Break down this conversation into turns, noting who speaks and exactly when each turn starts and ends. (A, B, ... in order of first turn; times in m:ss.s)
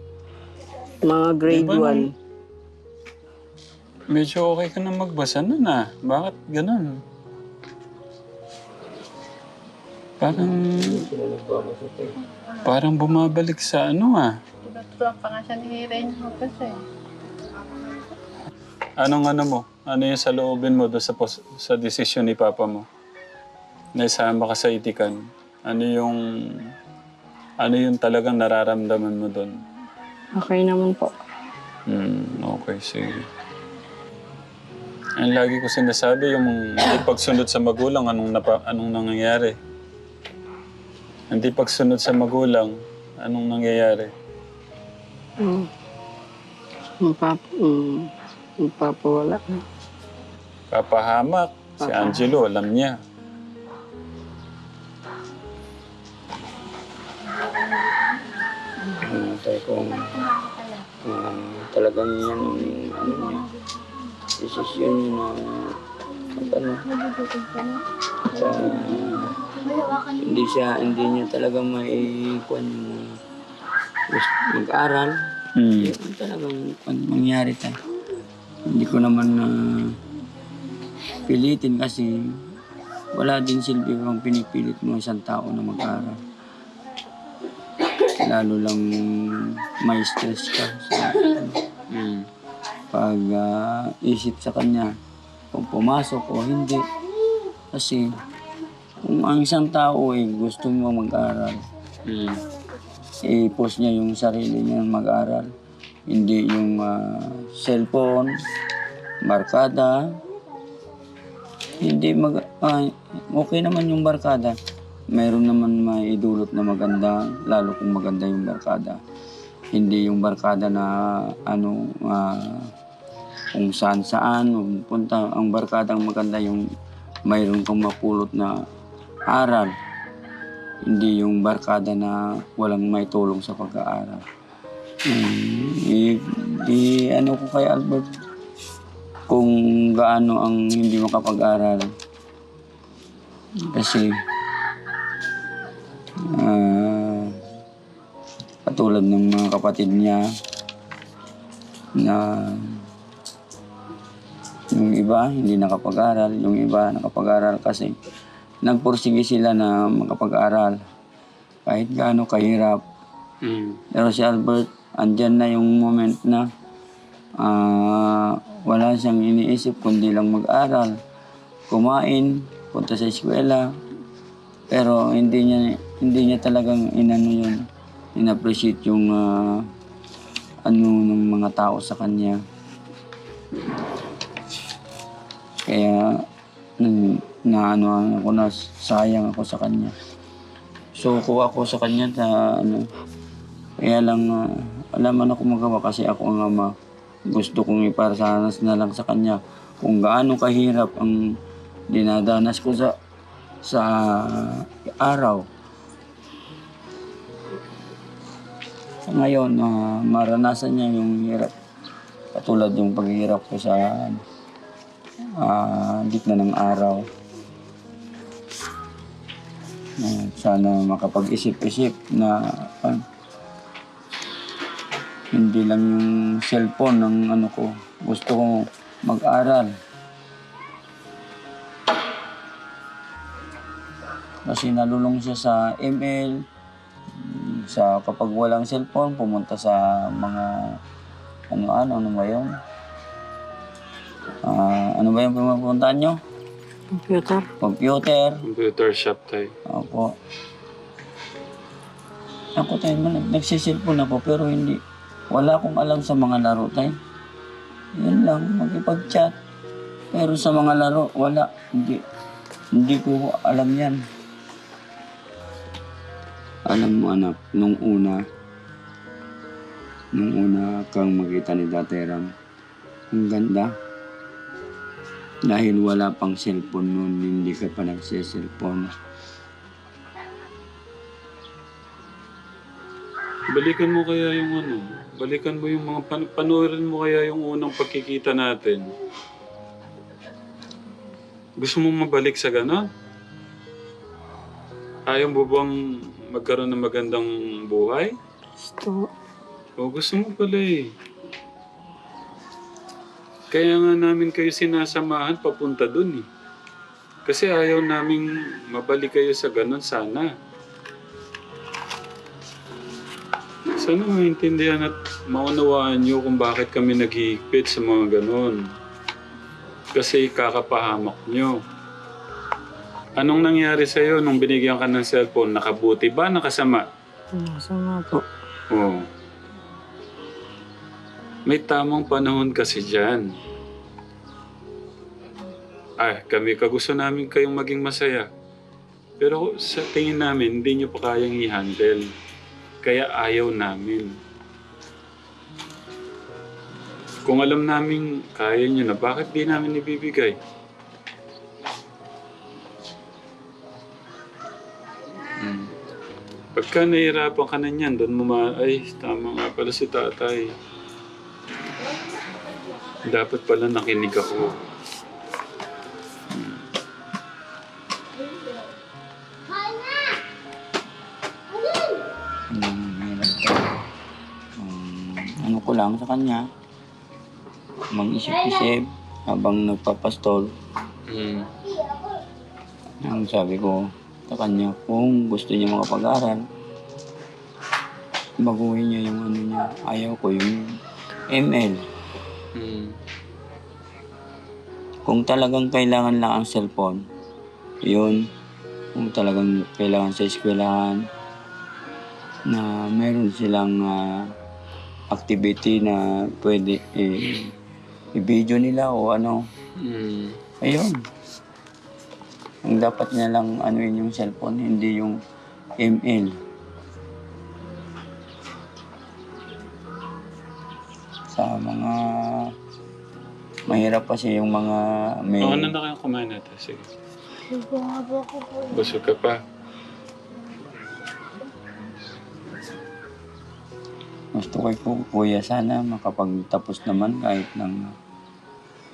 0:01.1-0:02.1 A
0:01.5-0:02.1 B
0:04.1-0:07.0 B
0:10.2-0:11.0 B
0:10.3-0:12.2 C
0:12.5-0:12.7 D
0:12.6-0:14.3 B
0:14.6-0:16.8 D
0:17.6-0:18.1 D
0:19.0-0:22.9 B
0:24.0-0:26.7 B
0:27.6-0:29.6 B
0:30.4-0:31.1 A
0:31.9-0:33.3 B
0:35.2-0:39.6 B
0:41.3-0:44.1 B
0:45.4-0:45.7 A
0:47.0-0:49.6 A
0:50.7-0:53.0 B
0:51.8-0:52.3 A
0:59.0-1:00.1 C
1:00.0-1:00.9 D
1:01.0-1:03.5 C
1:03.1-1:03.6 E
1:04.4-1:05.7 C
1:06.3-1:06.8 C
1:06.8-1:07.8 E
1:08.3-1:09.4 C
1:08.4-1:10.6 E
1:08.4-1:09.3 B
1:10.2-1:13.1 C
1:14.1-1:15.2 C
1:15.6-1:15.9 B
1:15.8-1:17.8 C
1:18.7-1:20.0 C
1:21.2-1:22.4 C
1:23.1-1:26.2 C
1:28.0-1:31.6 C
1:31.9-1:32.3 B
1:32.9-1:34.9 C
1:35.5-1:36.9 C
1:37.7-1:38.2 C
1:39.0-1:41.7 C
1:42.1-1:42.4 B
1:43.2-1:45.5 C
1:46.1-1:48.3 C
1:49.2-1:50.0 C
1:51.8-1:54.6 C
1:55.1-1:59.0 C
1:59.7-2:02.7 C
2:03.5-2:06.7 C
2:07.3-2:08.6 C
2:09.3-2:09.7 C
2:10.8-2:14.2 C
2:15.1-2:18.1 C
2:19.3-2:21.9 C
2:23.7-2:24.1 C
2:26.2-2:27.4 C
2:28.7-2:30.2 C
2:32.0-2:32.8 C
2:34.7-2:38.0 C
2:38.6-2:40.8 C
2:41.7-2:42.8 C
2:43.4-2:43.8 B
2:43.9-2:46.5 C
2:47.4-2:51.0 C
2:51.7-2:53.7 C
2:54.7-2:57.6 C
2:58.2-2:59.7 C
3:00.6-3:02.4 C
3:05.7-3:06.2 C
3:06.8-3:10.0 C
3:11.0-3:12.9 C
3:13.8-3:16.8 C
3:17.3-3:21.2 C
3:21.9-3:23.0 C
3:23.6-3:25.5 C
3:29.1-3:31.5 C
3:32.3-3:34.2 C
3:35.4-3:37.1 C
3:40.0-3:43.0 C
3:45.3-3:49.7 C
3:54.4-3:56.4 C
3:57.2-4:00.8 C
4:01.5-4:02.5 C
4:04.4-4:06.2 C
4:07.0-4:07.5 A
4:07.6-4:08.4 C
4:08.5-4:09.5 B
4:09.7-4:10.1 C
4:12.6-4:17.0 C
4:18.0-4:19.3 C
4:20.1-4:22.0 C
4:22.8-4:24.0 C
4:26.7-4:28.2 C
4:30.1-4:32.3 C
4:33.1-4:33.7 C
4:35.5-4:38.9 C
4:43.5-4:48.9 B
4:51.6-4:52.9 B
4:55.1-4:55.8 B
4:56.3-4:58.2 B
4:58.6-4:59.1 A
4:59.8-5:00.9 B
5:03.5-5:06.3 B
5:07.3-5:10.3 B
5:13.7-5:18.6 B
5:20.0-5:21.6 B
5:23.2-5:26.9 B
5:27.4-5:28.2 A
5:28.7-5:29.1 B
5:31.5-5:33.3 B
5:36.0-5:38.3 B
5:39.2-5:42.1 B
5:42.8-5:44.1 B
5:47.2-5:50.4 B
5:55.4-5:55.8 B
5:56.6-6:00.5 B
6:03.0-6:04.6 B
6:06.3-6:06.6 B
6:12.5-6:13.7 C
6:14.6-6:16.5 C
6:17.9-6:20.5 C
6:21.1-6:21.5 B
6:23.0-6:26.4 C
6:28.4-6:30.8 C
6:31.3-6:31.8 C
6:32.5-6:33.0 B
6:35.1-6:37.0 C
6:37.8-6:38.3 C
6:39.0-6:41.1 C
6:42.5-6:44.3 C
6:45.1-6:47.5 C
6:48.2-6:49.4 C
6:49.8-6:50.4 B
6:50.6-6:51.0 C
6:52.7-6:55.2 C
6:55.8-6:56.4 C
7:01.3-7:02.5 C
7:03.7-7:05.7 C
7:05.4-7:06.9 B
7:07.5-7:08.9 E
7:08.7-7:09.4 B
7:14.3-7:17.9 C